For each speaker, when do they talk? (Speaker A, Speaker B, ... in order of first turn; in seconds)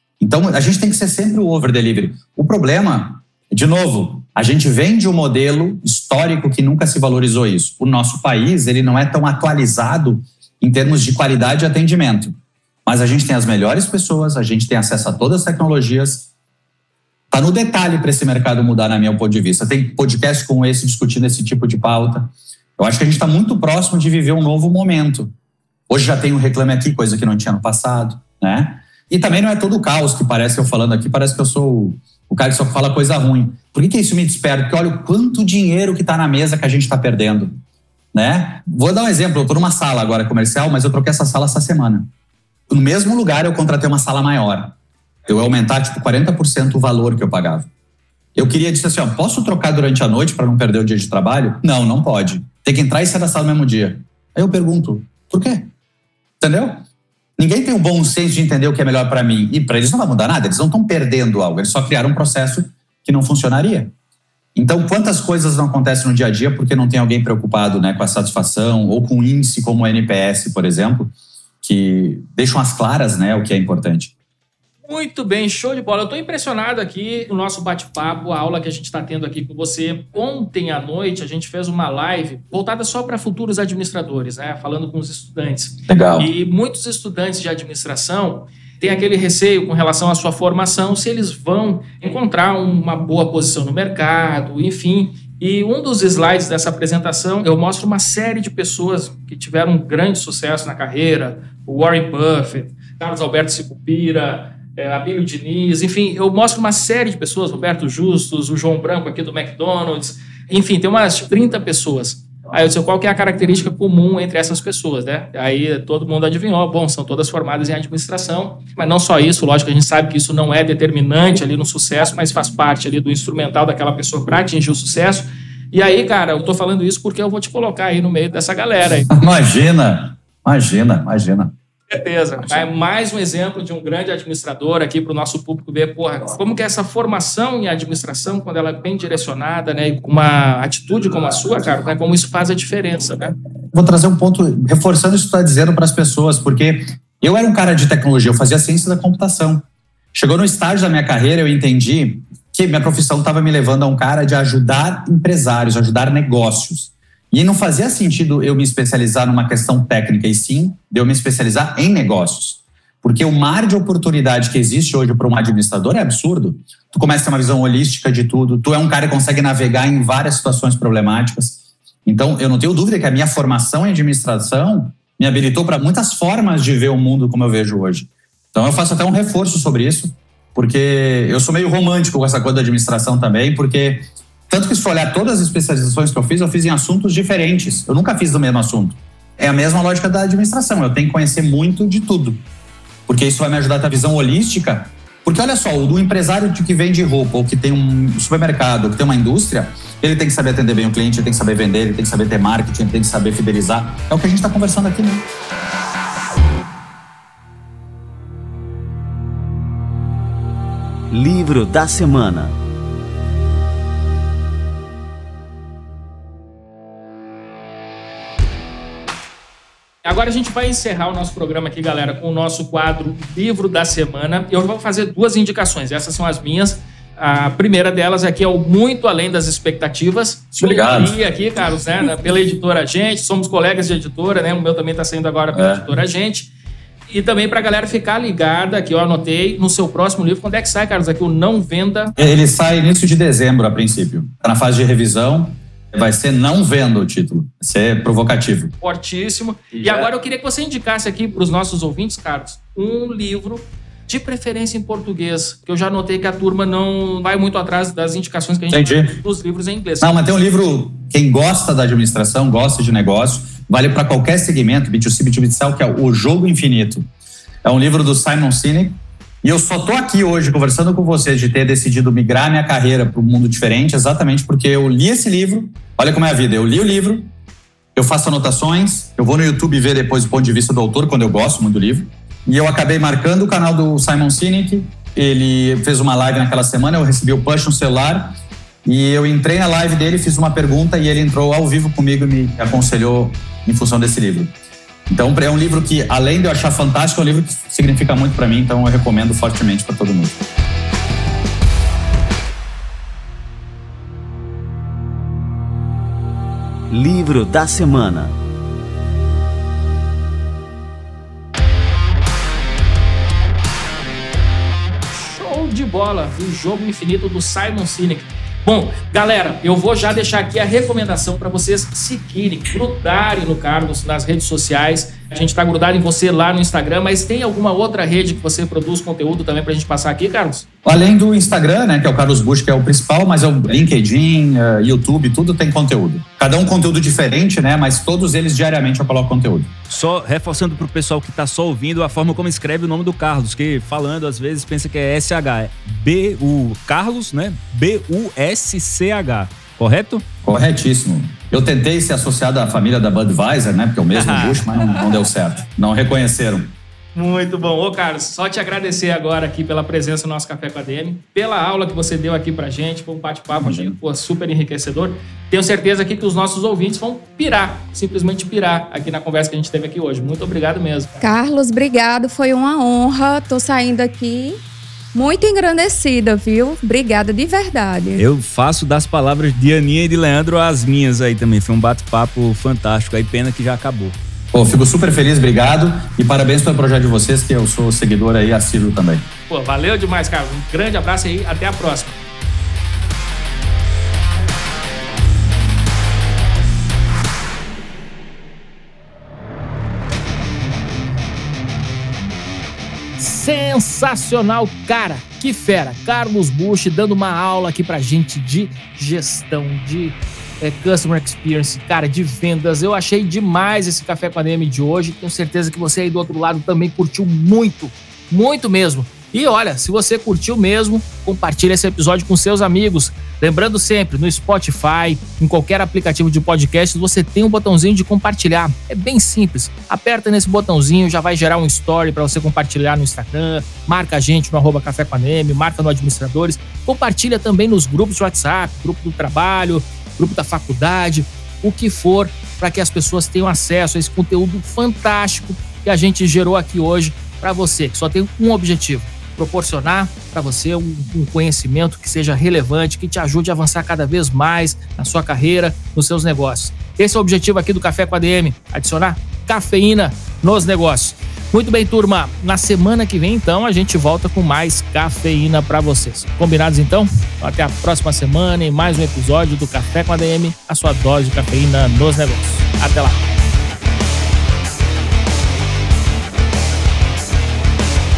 Speaker A: 0.2-12.3, 12.8-16.3, 17.3-25.3, 25.9-37.6, 38.1-42.1, 42.7-44.7, 45.2-47.7, 48.4-55.7, 56.4-56.8, 57.4-63.9, 64.5-74.1, 85.9-86.3, 129.1-131.5, 143.7-192.4, 193.1-205.2, 230.6-231.1, 235.5-235.8, 242.2-248.7, 258.7-259.1, 260.0-267.1, 267.6-277.3, 277.9-294.5, 295.1-300.4, 330.8-339.7, 350.4-356.7, 363.6-363.9, 384.5-389.3
Speaker B: 74.9-129.1, 131.9-143.3, 220.0-236.5, 237.1-242.1, 248.8-260.2, 315.1-330.6, 357.1-371.1, 389.5-392.2, 403.2-473.2
Speaker C: 211.1-212.5, 306.9-308.3
Speaker D: 339.9-350.2, 354.2-355.1, 378.2-384.1
Speaker E: 371.2-374.6, 375.1-378.2